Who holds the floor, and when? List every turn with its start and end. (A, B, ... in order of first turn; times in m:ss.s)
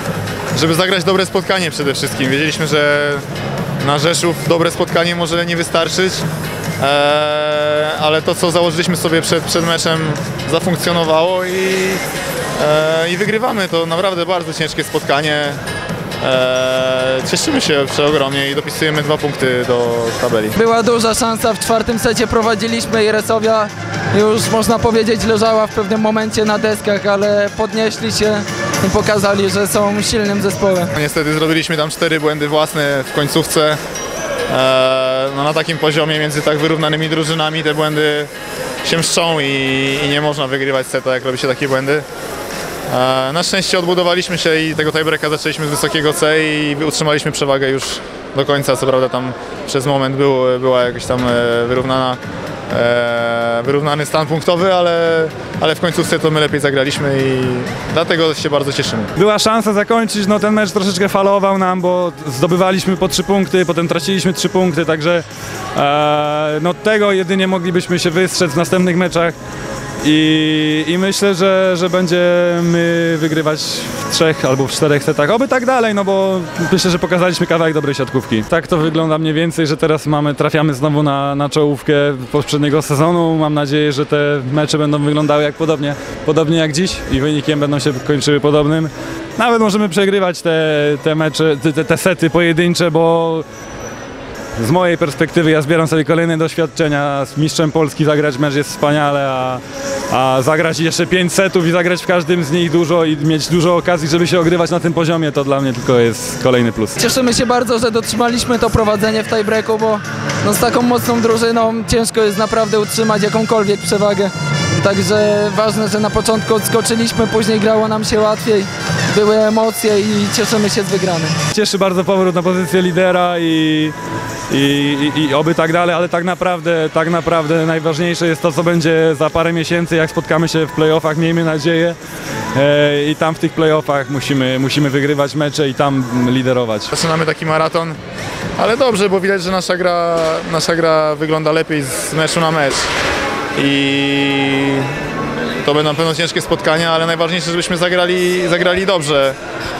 0:00.5-0:03.2 A
0:03.8-0:06.2 A
0:06.8-0:12.0 A
0:12.6-0:15.6 A
0:16.2-0:20.6 A
0:20.6-0:30.9 B
0:30.9-0:33.8 A
0:34.5-0:38.3 A
0:38.8-0:42.0 A
0:42.9-0:59.1 A
0:59.2-1:05.2 C
1:05.8-1:09.3 C
1:10.0-1:33.4 C
1:34.6-1:47.0 C
1:47.0-2:01.4 B
2:01.5-2:03.9 C
2:04.5-2:12.0 C
2:12.6-2:16.9 C
2:16.9-2:18.0 A
2:18.6-2:22.9 A
2:23.6-2:24.9 A
2:25.6-2:29.4 A